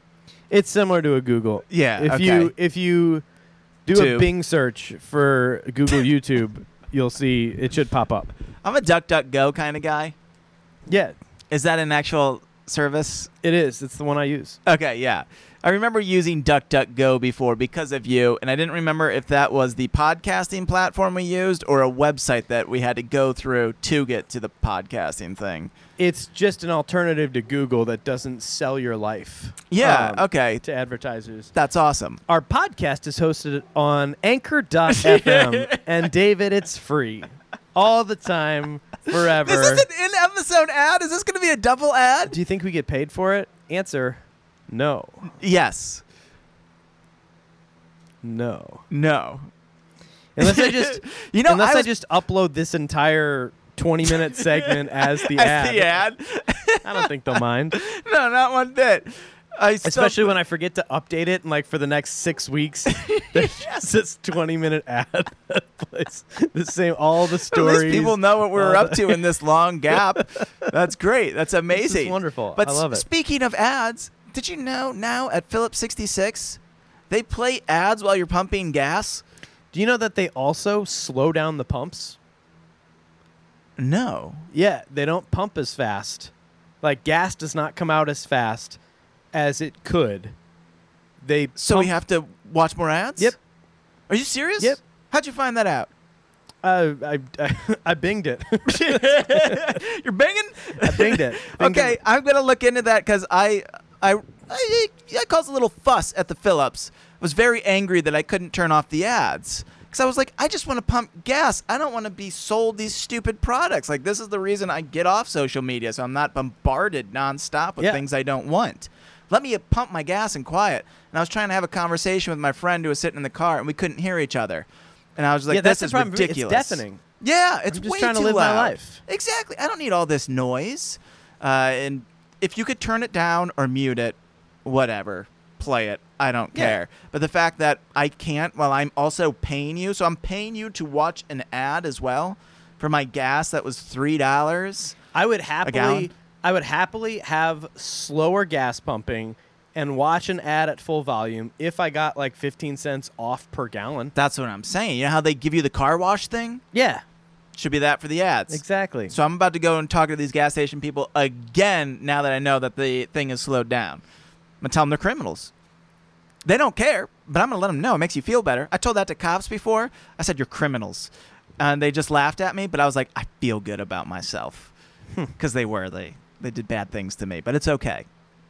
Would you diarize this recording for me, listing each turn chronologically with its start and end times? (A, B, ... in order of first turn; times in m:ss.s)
0:00.5-0:03.2 A
0:01.7-0:02.5 B
0:03.9-0:08.3 A
0:03.9-0:04.3 B
0:08.6-0:10.2 B
0:10.9-0:11.2 A
0:11.5-0:13.3 B
0:13.4-0:14.6 A
0:14.7-0:25.7 B
0:26.0-0:31.5 A
0:29.7-0:30.6 B
0:31.5-0:32.2 B
0:32.3-0:39.9 A
0:34.9-0:35.8 B
0:39.2-0:42.4 B
0:42.3-0:45.3 A
0:45.3-0:46.0 B
0:48.2-0:48.8 A
0:48.9-0:49.5 B
0:50.4-0:56.0 A
0:50.4-0:51.9 B
0:54.1-0:57.1 B
0:56.8-0:57.8 A
0:57.7-1:00.4 B
0:59.8-1:09.2 A
1:02.9-1:03.9 B
1:07.5-1:19.2 B
1:11.7-1:13.0 A
1:19.7-1:22.2 A
1:23.8-1:24.5 B
1:24.5-1:28.8 A
1:29.3-1:30.4 A
1:31.2-1:31.9 A
1:31.6-1:33.4 B
1:34.1-1:35.9 B
1:36.6-1:39.8 A
1:38.7-2:25.0 B
1:40.8-1:42.0 A
2:05.5-2:07.0 A
2:07.7-2:09.0 A
2:16.5-2:16.8 A
2:25.1-2:34.1 A
2:25.6-2:26.1 B
2:34.2-2:36.6 B
2:36.7-2:37.0 A
2:37.6-2:44.0 B
2:38.5-2:39.2 A
2:44.6-2:45.5 B
2:46.4-2:54.7 B
2:55.4-2:58.1 B